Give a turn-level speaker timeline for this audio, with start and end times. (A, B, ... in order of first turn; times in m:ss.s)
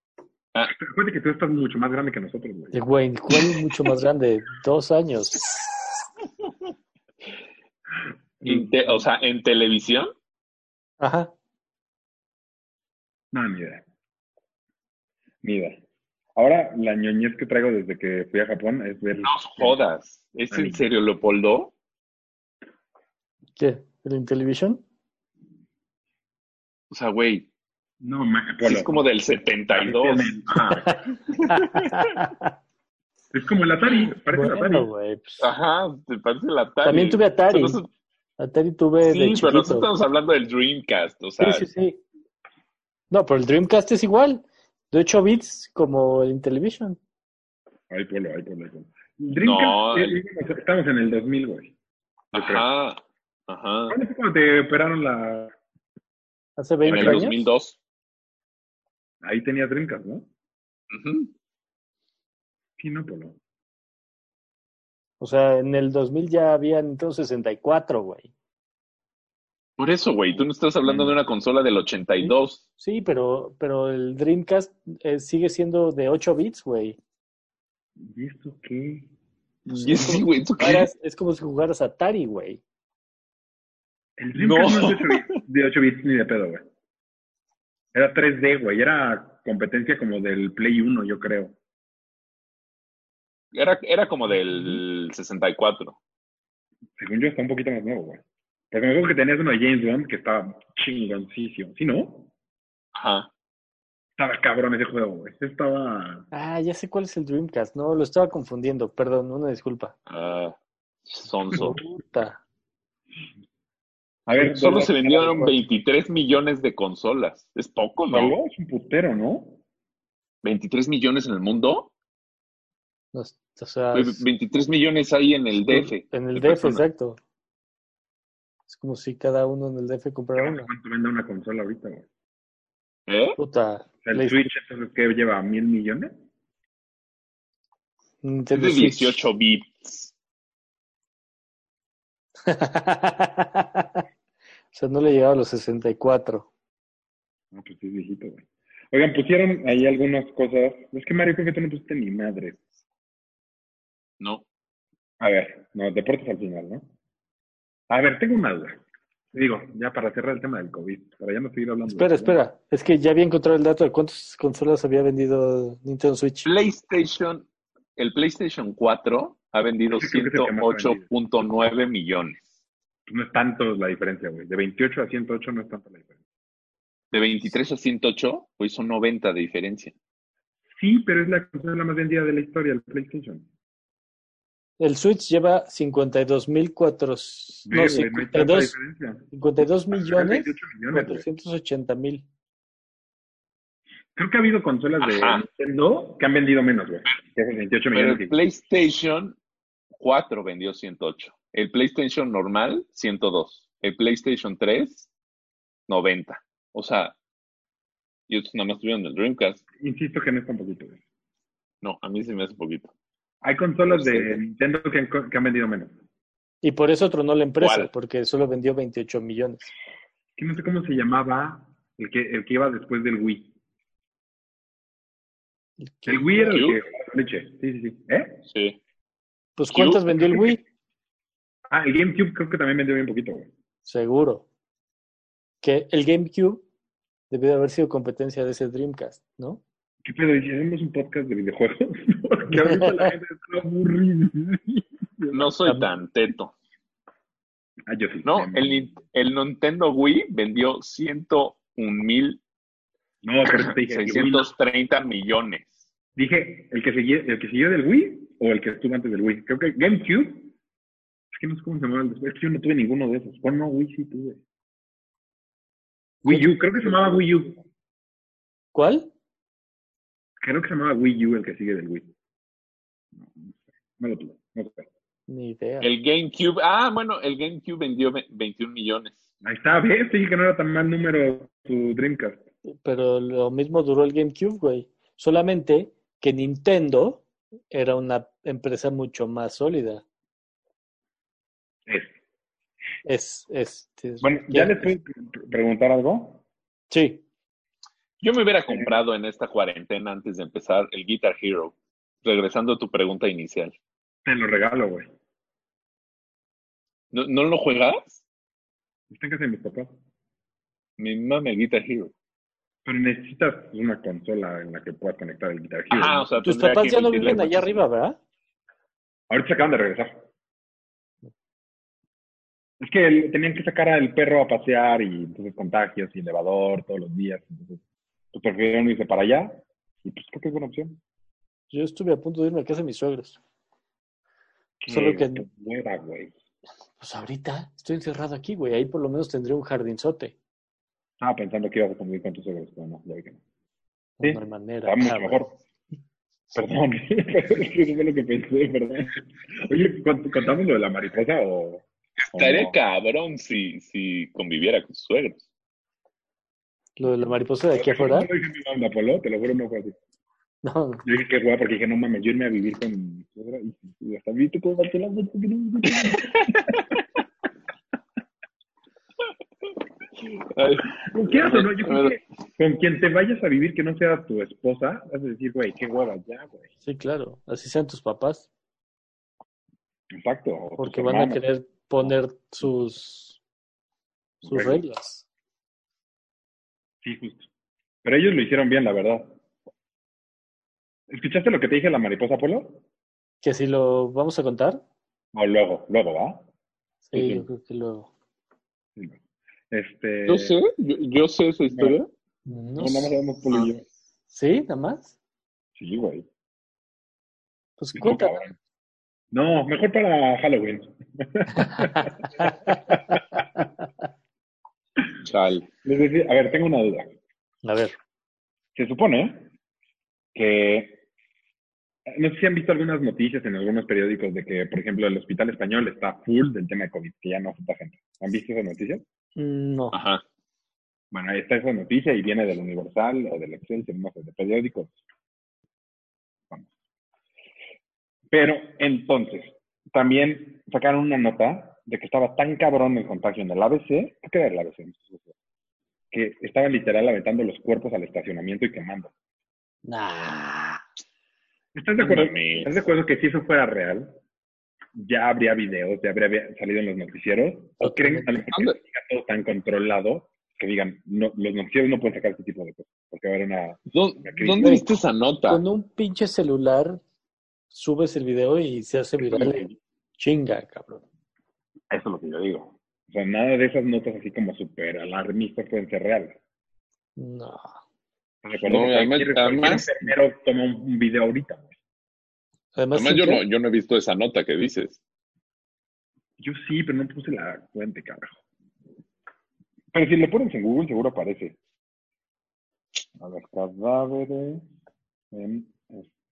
0:00.7-0:02.8 A
0:02.7-0:05.8 B
0:08.4-0:08.7 A
0:08.4-0:10.1 C
0:11.0-0:11.3 B
0:13.3-0:13.8 A
0:15.4-0:15.8 A
0:16.3-0:19.8 A
0:19.2-0:21.7 C
0:20.5-0:20.8 A
0:23.6-0:24.8 B
0:26.9-0:27.5 C
0:28.0-0:29.0 A
0:28.6-0:32.1 C
0:29.7-0:30.9 A
0:30.8-0:32.5 B
0:33.3-0:34.9 A
0:34.3-0:35.5 B
0:35.4-0:37.9 C
0:36.8-0:37.8 B
0:38.4-0:39.9 B
0:39.0-0:41.7 C
0:41.4-0:42.0 B
0:43.1-0:47.0 B
0:47.9-0:51.7 A
0:49.4-0:50.2 C
0:52.3-0:52.6 A
0:52.3-0:54.0 C
0:53.9-0:55.5 A
0:56.6-0:57.4 B
0:56.8-0:57.8 C
0:56.9-0:57.3 A
0:59.2-1:00.3 A
1:00.9-1:01.3 C
1:02.8-1:03.4 A
1:05.2-1:08.3 B
1:09.8-1:12.6 C
1:10.8-1:11.2 A
1:12.2-1:17.0 B
1:18.0-1:19.1 A
1:19.6-1:22.6 B
1:19.8-1:20.9 C
1:24.2-1:26.6 A
1:24.4-1:25.4 C
1:27.9-1:31.5 A
1:33.5-1:36.0 C
1:37.0-1:42.3 A
1:42.9-1:43.3 C
1:44.2-1:46.2 A
1:46.3-1:49.9 B
1:50.1-1:51.8 C
1:51.5-1:52.4 B
1:54.3-1:55.6 A
1:54.3-1:58.3 C
1:58.1-1:59.6 A
2:00.4-2:01.9 C
2:03.1-2:04.2 B
2:03.9-2:06.8 C
2:05.6-2:07.2 B
2:08.7-2:10.7 B
2:10.4-2:12.0 A
2:13.1-2:13.4 C
2:13.4-2:14.5 B
2:14.0-2:16.1 A
2:18.2-2:19.2 B
2:18.5-2:20.1 C
2:22.4-2:24.0 B
2:24.7-2:26.5 B
2:27.5-2:32.6 A
2:35.2-2:36.9 A
2:37.9-2:38.8 A
2:39.3-2:42.4 A
2:41.9-2:46.5 B
2:46.4-2:52.5 C
2:49.9-2:51.0 A
2:53.1-2:56.1 A
2:57.1-2:59.9 C
3:00.8-3:03.4 A
3:04.8-3:08.7 B
3:07.6-3:09.3 A
3:09.3-3:12.2 B
3:09.9-3:11.2 A
3:14.1-3:18.4 A
3:15.0-3:15.4 C
3:17.9-3:19.4 C
3:20.0-3:25.1 C
3:25.9-3:27.2 C
3:28.3-3:29.6 C
3:29.8-3:31.0 A
3:31.8-3:32.9 C
3:33.4-3:35.9 A
3:33.9-3:34.4 C
3:36.6-3:39.7 B
3:37.6-3:37.9 C
3:40.4-3:43.5 A
3:45.8-3:46.5 B
3:46.1-3:48.4 A
3:46.4-3:46.8 C
3:48.5-3:48.8 C
3:49.6-3:50.6 B
3:49.7-3:50.5 C
3:51.7-3:53.5 A
3:53.8-3:54.4 B
3:55.6-3:56.6 B
3:57.3-3:59.6 B
4:00.0-4:05.5 A
4:02.5-4:03.1 B
4:05.3-4:06.5 C
4:07.9-4:08.9 A
4:08.2-4:12.4 C
4:13.2-4:14.5 A
4:13.4-4:15.8 C
4:16.2-4:20.5 A
4:21.3-4:24.4 A
4:26.2-4:27.6 A
4:26.2-4:26.5 B
4:28.7-4:29.1 B
4:30.4-4:32.1 A
4:33.1-4:34.9 A
4:35.3-4:35.9 B
4:35.8-4:39.2 C
4:39.4-4:42.4 A
4:42.8-4:50.0 B
4:51.8-4:52.1 A
4:53.0-4:54.9 B
4:54.2-4:56.4 A
4:56.9-4:57.2 B
4:58.2-5:03.7 C
4:58.7-4:59.0 A
5:04.2-5:05.1 A
5:07.1-5:08.2 C
5:09.1-5:10.0 A
5:11.0-5:12.1 C
5:12.8-5:16.3 A
5:15.9-5:17.8 C
5:16.4-5:18.2 B
5:19.3-5:20.2 A
5:22.8-5:27.8 A
5:28.3-5:31.0 A
5:31.7-5:33.4 B
5:34.8-5:36.3 A
5:34.9-5:35.4 B
5:37.0-5:40.3 B
5:41.2-5:43.4 A
5:44.2-5:45.4 B
5:44.2-5:45.6 A
5:46.5-5:52.8 A
5:52.3-5:55.4 C
5:57.0-5:58.3 B
5:57.0-6:00.0 A
6:00.6-6:01.0 B
6:01.0-6:06.8 A
6:10.5-6:12.2 C
6:11.0-6:16.7 A
6:16.8-6:18.5 B
6:20.1-6:21.4 A
6:20.8-6:23.4 B
6:24.4-6:25.2 B
6:24.4-6:24.8 A
6:27.0-6:27.5 A
6:28.0-6:29.4 A
6:31.1-6:32.8 A
6:33.4-6:34.8 B
6:35.3-6:36.4 A
6:37.1-6:38.1 B
6:37.2-6:37.4 A
6:39.7-6:40.6 A
6:40.3-6:42.1 C
6:41.7-6:42.0 A
6:42.4-6:43.1 B
6:42.8-6:43.8 A
6:44.3-6:45.1 B
6:45.8-6:46.2 A
6:47.8-6:48.5 B
6:48.0-6:48.5 A
6:49.3-6:53.4 A
6:51.6-6:52.5 B
6:55.2-6:55.7 C
6:55.8-6:57.1 A
6:57.6-6:58.0 B
6:58.7-6:59.5 A
7:00.3-7:01.0 A
7:02.1-7:09.0 A
7:09.4-7:10.0 B
7:09.9-7:10.2 C
7:11.1-7:15.0 A
7:18.3-7:25.3 A
7:26.1-7:29.1 A
7:29.8-7:30.8 B
7:31.7-7:34.2 A
7:32.0-7:32.8 C
7:34.9-7:44.8 A
7:37.8-7:38.4 B
7:38.5-7:38.8 C
7:43.9-7:45.6 C
7:45.5-7:47.0 B
7:47.7-7:49.7 B
7:49.2-7:49.8 A
7:50.2-7:51.0 B
7:51.9-7:56.4 A
7:57.2-7:57.7 B
7:58.4-8:01.7 A
7:58.6-7:59.9 C
8:02.7-8:03.4 B
8:02.9-8:05.0 C
8:06.4-8:08.4 A
8:09.9-8:11.6 A
8:13.2-8:14.6 A
8:15.3-8:16.1 A